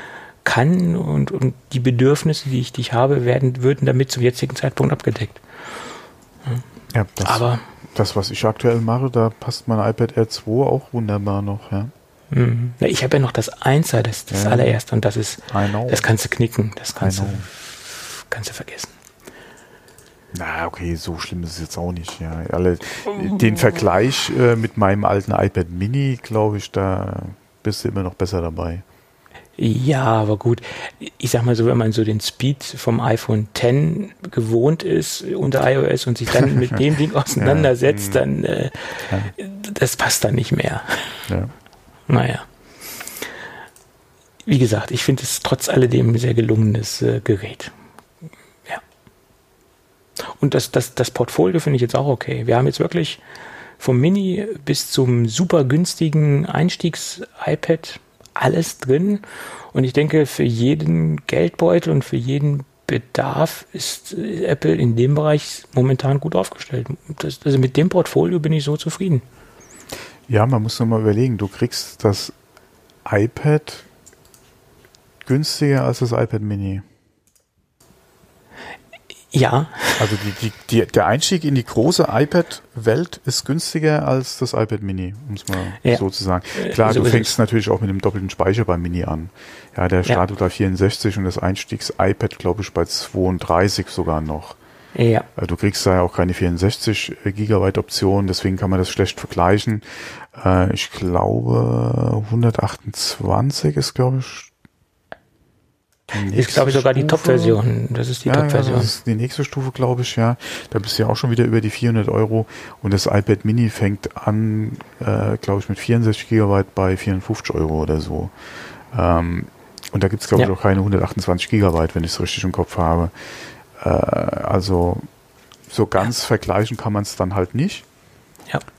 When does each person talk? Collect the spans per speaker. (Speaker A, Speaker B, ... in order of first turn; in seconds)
Speaker A: 0.4-5.4, 7.2-7.6, 12.3-18.9, 29.6-41.3, 42.1-42.5, 44.4-47.7, 50.2-53.2, 53.8-69.2, 79.3-80.1, 86.5-87.3, 94.9-95.3, 106.3-108.9
Speaker B: 6.9-11.9, 14.3-14.8, 15.5-16.0, 17.0-17.5, 20.3-28.8, 37.4-38.2, 70.3-72.3, 73.0-73.9, 75.2-76.8, 80.0-94.6, 95.3-104.5, 106.1-107.6, 108.2-118.3, 118.9-123.1, 123.7-125.1, 125.7-127.8